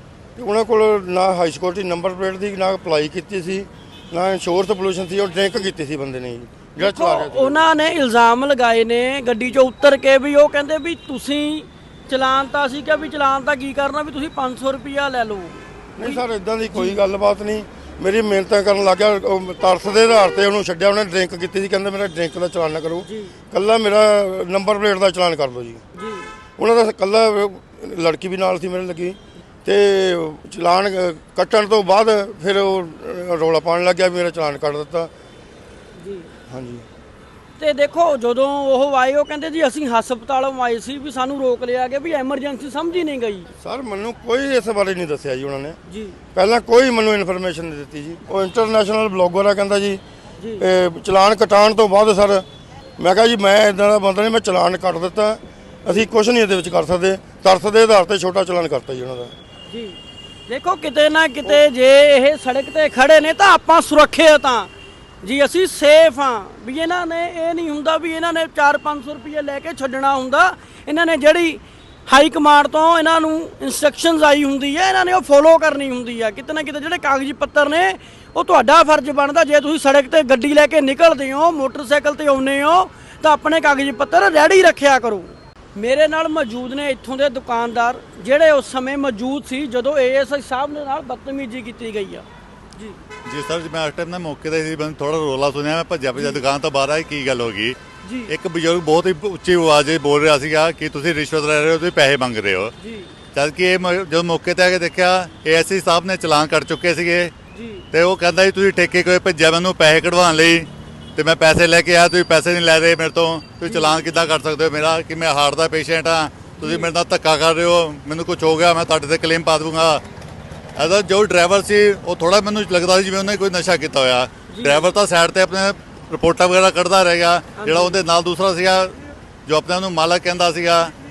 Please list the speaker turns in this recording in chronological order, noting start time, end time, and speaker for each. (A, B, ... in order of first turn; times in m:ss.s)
0:00.4-0:07.7 A
0:06.8-0:17.0 B
0:16.0-0:25.8 A
0:23.0-0:23.4 B
0:26.0-0:26.3 B
0:26.6-0:35.1 A
0:36.0-0:36.3 B
0:36.5-0:36.8 A
0:37.6-0:43.5 B
0:43.6-0:45.8 A
0:45.9-0:46.2 B
0:46.3-0:50.0 A
0:50.4-0:50.6 B
0:50.6-0:52.4 A
0:53.0-0:59.3 A
0:59.7-1:04.7 B
1:05.2-1:33.0 B
1:33.2-1:42.7 C
1:36.2-1:36.4 B
1:38.0-1:38.3 B
1:42.8-1:43.1 B
1:43.3-1:47.3 C
1:47.5-1:47.9 B
1:47.9-2:00.0 C
1:53.6-1:54.0 B
1:56.6-1:56.9 B
2:00.8-2:10.9 C
2:04.5-2:04.9 B
2:07.6-2:08.0 B